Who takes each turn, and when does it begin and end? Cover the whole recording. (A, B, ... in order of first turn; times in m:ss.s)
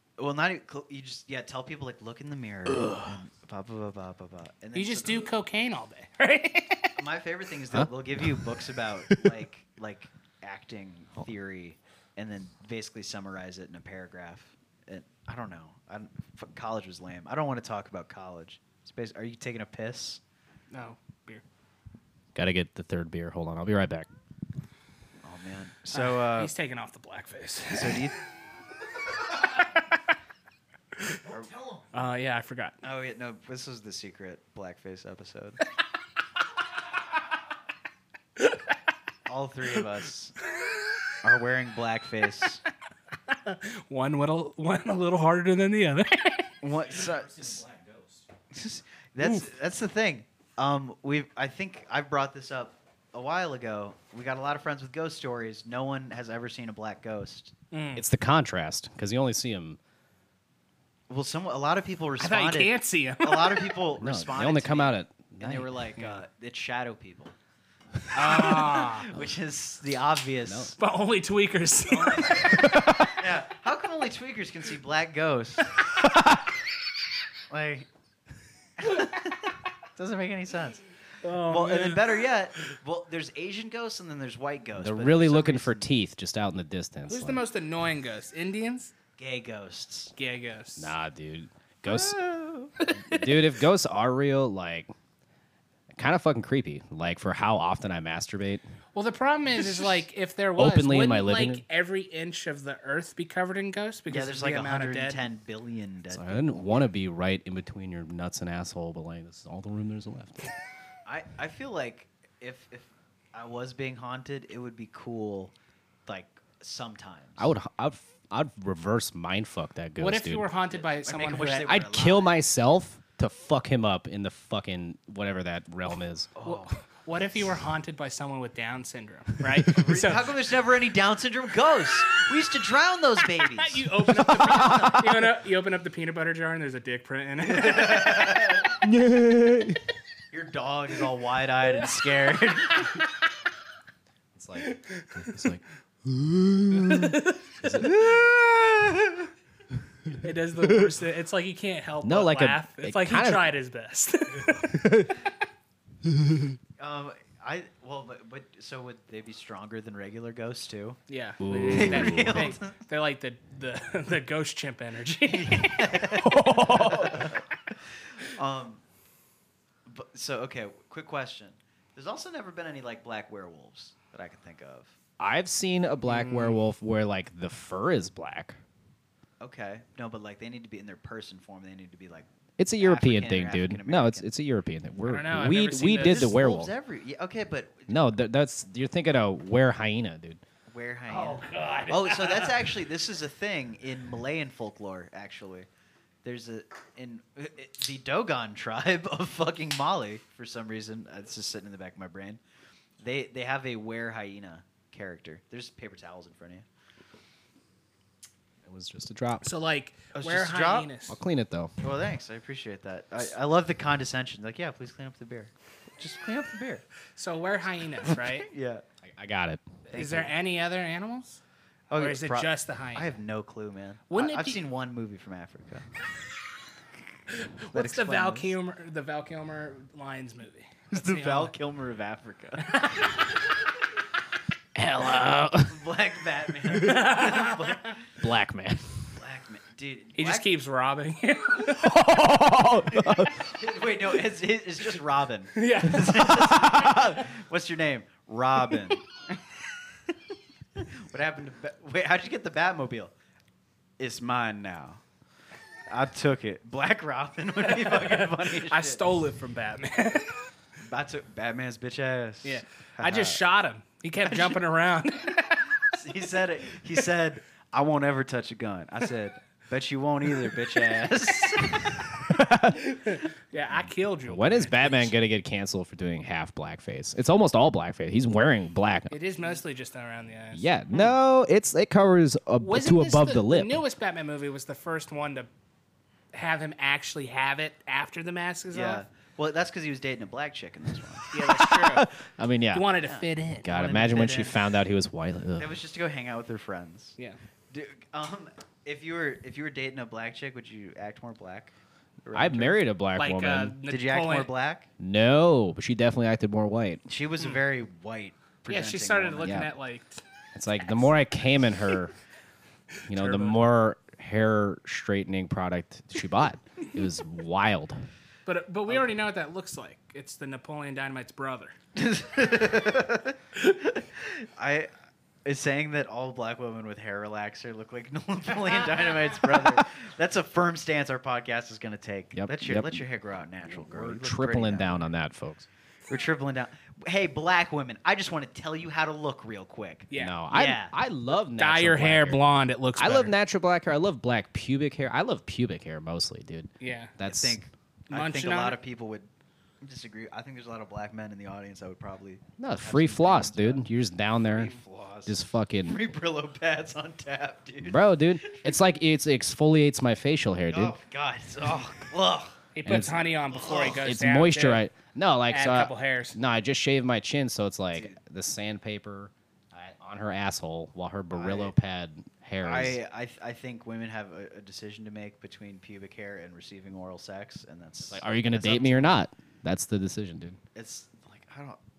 0:00.2-0:05.3 A
0:02.8-0:03.1 B
0:04.7-0:07.0 C
0:06.9-0:20.2 A
0:07.7-0:08.4 B
0:20.7-0:21.4 C
0:22.3-0:24.1 B
0:25.2-0:26.5 A
0:25.9-0:28.1 C
0:27.7-0:28.2 A
0:31.3-0:31.5 A
0:31.9-0:32.8 C
0:32.8-0:35.6 A
0:38.4-0:38.7 C
0:39.2-0:40.4 A
0:41.2-0:42.6 A
0:43.3-0:46.5 C
0:46.6-0:47.6 A
0:46.9-0:48.2 B
0:48.5-0:57.5 A
0:57.7-0:58.0 C
0:57.9-0:59.8 B
1:01.1-1:07.3 A
1:02.2-1:03.8 C
1:04.0-1:05.9 B
1:08.1-1:10.8 A
1:08.1-1:09.1 C
1:10.4-1:10.8 B
1:10.8-1:12.7 C
1:11.9-1:15.8 A
1:12.6-1:13.2 B
1:17.5-1:17.9 A
1:18.8-1:25.9 A
1:21.2-1:22.2 C
1:24.8-1:27.4 B
1:27.1-1:28.9 C
1:29.2-1:30.1 A
1:30.2-1:30.9 C
1:30.8-1:32.2 B
1:31.8-1:32.7 A
1:32.8-1:33.3 C
1:32.9-1:34.9 B
1:35.9-1:38.6 B
1:38.9-1:45.2 C
1:40.6-1:41.6 B
1:44.1-1:46.7 A
1:46.1-1:50.5 B
1:51.0-1:55.5 A
1:56.1-1:57.5 A
1:57.4-2:00.5 B
2:00.0-2:01.7 C
2:00.7-2:02.3 A
2:01.6-2:06.3 B
2:06.4-2:06.8 A
2:06.4-2:10.4 C
2:09.7-2:13.9 A
2:13.2-2:18.4 C
2:14.1-2:15.3 B
2:17.4-2:18.8 A
2:18.8-2:19.8 B
2:20.3-2:23.0 A
2:22.7-2:23.1 C
2:24.3-2:29.3 B
2:24.6-2:25.5 C
2:26.7-2:28.0 C
2:30.2-2:34.7 C
2:30.6-2:30.9 B
2:32.0-2:33.5 B
2:34.5-2:35.2 B
2:36.0-2:36.6 B
2:36.8-2:41.0 A
2:41.1-2:46.2 C
2:41.4-2:42.4 B
2:41.6-2:42.8 A
2:45.3-2:47.4 A
2:46.2-2:47.3 B
2:46.7-2:47.3 C
2:48.1-2:48.8 A
2:49.8-2:54.9 A
2:55.2-2:58.6 B
2:56.1-2:56.6 C
2:59.4-3:02.3 A
3:02.6-3:06.7 B
3:02.8-3:04.3 A
3:05.0-3:06.3 C
3:05.9-3:08.1 A
3:07.9-3:10.4 B
3:10.7-3:15.7 A
3:11.1-3:12.7 C
3:16.2-3:22.4 A
3:23.0-3:26.6 A
3:28.6-3:29.4 B
3:29.4-3:31.2 C
3:30.1-3:30.9 A
3:31.1-3:31.7 B
3:31.8-3:36.8 A
3:37.2-3:38.5 C
3:38.1-3:38.8 A
3:39.0-3:39.8 B
3:39.9-3:40.3 A
3:39.9-3:41.4 C
3:41.9-3:45.9 A
3:42.0-3:43.2 C
3:44.1-3:44.6 C
3:47.3-3:51.5 C
3:47.7-3:48.5 A
3:50.9-3:53.1 A
3:52.6-3:53.4 C
3:54.7-3:55.8 B
3:55.6-3:58.1 A
3:56.8-3:57.2 B
3:56.8-3:57.7 C
3:58.2-3:59.1 B
3:59.2-4:00.5 A
4:00.2-4:01.9 C
4:01.6-4:03.5 B
4:03.4-4:09.1 A
4:05.6-4:06.7 C
4:06.5-4:07.2 B
4:10.8-4:13.1 A
4:14.0-4:15.0 A
4:15.9-4:19.0 A
4:17.8-4:20.4 C
4:20.8-4:23.4 A
4:22.4-4:25.8 C
4:24.2-4:24.6 A
4:25.9-4:32.4 A
4:32.2-4:32.9 B
4:32.9-4:35.1 C
4:34.3-4:39.1 B
4:39.1-4:40.6 C
4:40.5-4:43.8 B
4:42.6-4:45.5 C
4:46.3-4:49.0 C
4:48.7-4:51.3 A
4:51.3-4:52.1 C
4:51.3-4:52.9 B
4:52.7-4:54.5 C
4:53.0-4:53.2 A
4:53.6-4:55.7 B
4:54.1-4:54.5 A
4:55.6-4:57.2 A
4:57.7-5:02.8 A
5:02.3-5:03.8 B
5:03.2-5:04.5 C
5:03.9-5:04.9 A
5:05.0-5:07.0 B
5:07.0-5:09.6 A
5:08.7-5:10.2 C
5:09.4-5:09.7 B
5:10.5-5:12.1 B
5:10.8-5:11.1 C
5:13.1-5:18.0 B
5:13.1-5:13.6 C
5:18.4-5:21.7 C
5:22.0-5:24.9 A
5:25.4-5:35.1 A
5:28.8-5:29.2 C
5:32.3-5:33.0 B
5:33.6-5:35.7 B
5:36.1-5:40.9 A
5:40.1-5:40.4 C
5:40.1-5:42.4 B
5:41.5-5:43.3 C
5:43.0-5:47.6 B
5:46.8-5:47.1 C
5:47.2-5:49.3 A
5:48.1-5:48.8 C
5:49.8-5:53.8 A
5:52.6-5:54.7 B
5:54.5-5:58.8 A
5:55.2-5:56.0 B
5:57.8-6:01.0 B
6:00.7-6:02.6 A
6:02.7-6:04.8 C
6:02.8-6:03.2 B
6:03.5-6:04.0 A
6:03.7-6:13.0 B
6:05.5-6:06.4 C
6:07.9-6:08.2 A
6:11.3-6:11.7 A
6:12.6-6:19.2 A
6:18.1-6:20.6 B
6:20.7-6:21.8 A